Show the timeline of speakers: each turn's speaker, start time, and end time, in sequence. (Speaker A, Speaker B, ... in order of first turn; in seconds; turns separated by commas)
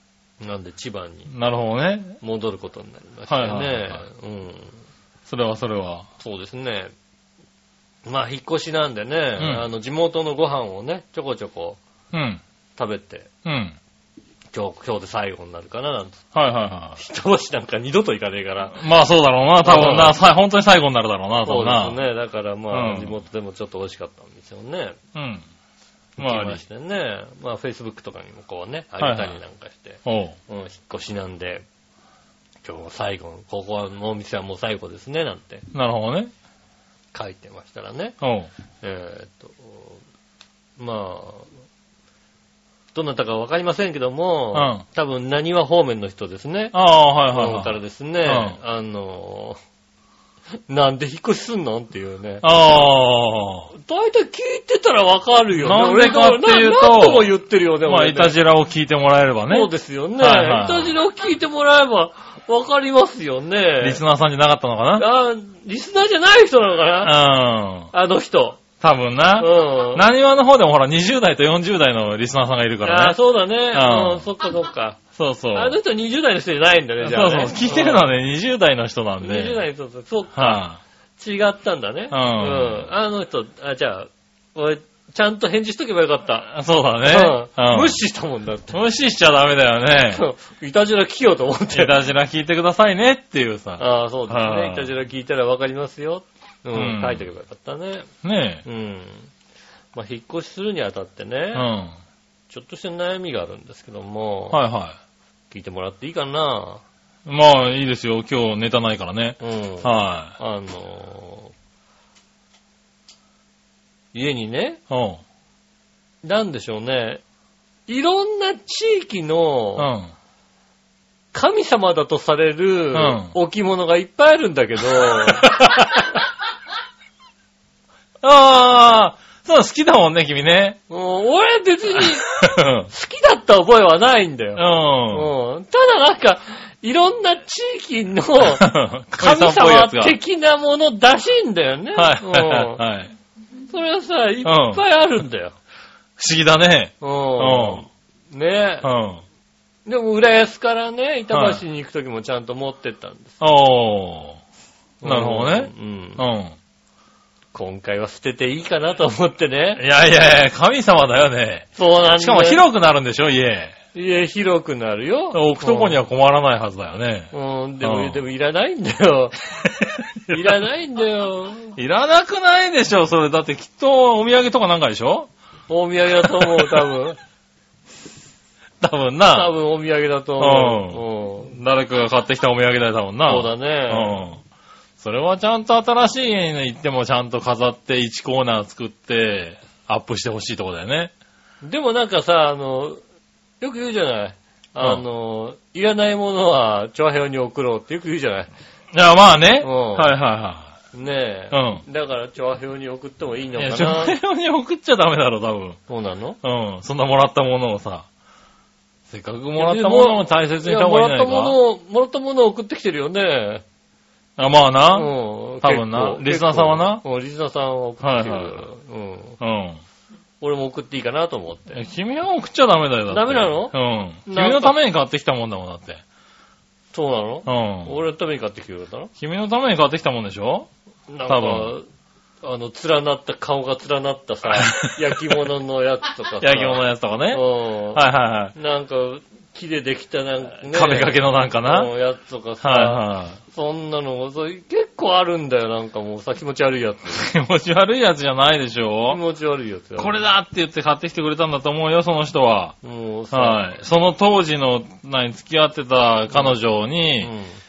Speaker A: 0.4-1.3, Speaker B: 1.3-2.2, Speaker A: 2.2-4.8, Speaker B: 3.3-4.0, Speaker B: 5.3-6.1, Speaker A: 6.2-6.9, Speaker A: 8.0-11.8, Speaker B: 9.4-9.6, Speaker B: 12.1-12.4, Speaker A: 12.8-13.3, Speaker B: 13.4-13.8, Speaker A: 14.5-16.2, Speaker B: 16.3-17.0, Speaker A: 16.9-18.8, Speaker B: 18.7-22.0, Speaker A: 19.6-20.1, Speaker A: 21.4-25.0, Speaker B: 22.7-23.1, Speaker B: 25.1-25.4, Speaker A: 26.2-31.6, Speaker B: 26.2-26.6, Speaker B: 29.0-29.4, Speaker B: 30.0-30.4, Speaker A: 32.6-35.7, Speaker B: 35.7-36.3, Speaker A: 37.1-38.1, Speaker B: 38.2-38.5, Speaker A: 38.8-40.0, Speaker A: 40.8-41.5, Speaker A: 42.9-46.8, Speaker B: 44.5-44.8, Speaker B: 46.7-48.6, Speaker A: 47.3-49.6, Speaker A: 50.7-52.9, Speaker B: 52.4-53.7, Speaker A: 53.7-58.3, Speaker B: 55.5-57.3, Speaker B: 57.8-61.0, Speaker A: 59.5-64.0, Speaker B: 63.8-65.0, Speaker A: 65.0-67.2, Speaker B: 67.0-67.9, Speaker A: 67.9-68.6, Speaker B: 68.8-73.2, Speaker A: 69.4-70.1, Speaker A: 72.8-75.0, Speaker B: 73.7-74.3, Speaker B: 75.2-75.8, Speaker A: 75.5-78.0, Speaker B: 77.0-79.6, Speaker A: 79.2-80.6, Speaker B: 80.3-80.8, Speaker A: 81.2-86.5, Speaker B: 82.1-82.9, Speaker B: 86.5-88.0, Speaker A: 87.0-88.8, Speaker B: 88.7-90.2, Speaker A: 90.1-92.0, Speaker B: 91.7-94.9, Speaker A: 93.8-98.1, Speaker B: 96.7-97.2, Speaker B: 98.2-98.6, Speaker A: 98.6-99.3, Speaker A: 99.9-101.7, Speaker B: 101.5-102.0, Speaker A: 102.5-104.6, Speaker B: 104.5-105.0, Speaker A: 105.5-106.8, Speaker B: 107.2-110.3, Speaker A: 109.4-111.5, Speaker A: 114.1-114.8, Speaker B: 114.9-115.2, Speaker A: 116.2-117.2, Speaker A: 117.9-119.9, Speaker B: 119.8-120.1, Speaker A: 121.3-125.6, Speaker B: 122.9-123.3, Speaker B: 125.4-126.0, Speaker B: 128.2-130.8, Speaker A: 130.9-132.3, Speaker B: 132.0-132.9, Speaker A: 132.9-138.6, Speaker B: 134.6-135.3, Speaker B: 138.4-140.2, Speaker A: 139.2-142.8, Speaker B: 141.9-143.1, Speaker A: 143.7-145.6, Speaker B: 144.4-144.8, Speaker B: 146.2-147.9, Speaker A: 147.0-148.9, Speaker B: 148.8-149.2, Speaker A: 149.8-153.4, Speaker B: 151.3-151.6, Speaker B: 153.4-154.4, Speaker A: 155.0-156.2, Speaker B: 155.0-156.6, Speaker A: 157.5-159.8, Speaker B: 159.8-163.8, Speaker A: 161.8-162.6, Speaker A: 163.9-166.0, Speaker B: 165.3-168.2, Speaker A: 167.3-169.5, Speaker B: 169.6-170.6, Speaker A: 170.3-171.8, Speaker B: 171.8-175.3, Speaker A: 175.7-177.2, Speaker B: 176.2-176.9, Speaker B: 178.8-179.5, Speaker A: 179.3-181.5, Speaker B: 180.4-184.4, Speaker A: 183.3-184.2, Speaker B: 185.0-191.1, Speaker A: 191.6-193.0, Speaker A: 193.6-198.5, Speaker B: 194.8-195.0, Speaker B: 198.9-200.7, Speaker A: 199.6-200.1, Speaker A: 200.9-204.2, Speaker B: 201.5-201.8, Speaker B: 203.6-205.8, Speaker A: 205.9-206.4, Speaker B: 206.4-208.1, Speaker B: 209.1-211.6, Speaker A: 209.6-213.6, Speaker B: 214.4-217.0, Speaker A: 214.9-219.4, Speaker B: 218.0-218.6, Speaker B: 219.4-219.8, Speaker A: 220.4-221.8, Speaker B: 221.7-226.0, Speaker A: 223.1-224.7, Speaker A: 226.9-229.1, Speaker B: 227.4-227.9, Speaker B: 229.2-230.7, Speaker A: 231.1-231.8, Speaker B: 231.2-231.7, Speaker A: 232.4-247.3, Speaker B: 234.5-235.4, Speaker B: 236.4-238.6, Speaker B: 240.7-241.9, Speaker B: 242.6-243.4, Speaker B: 247.1-249.2, Speaker A: 249.1-250.2, Speaker B: 250.0-252.7, Speaker A: 252.8-253.6, Speaker B: 253.3-257.3, Speaker A: 257.2-257.6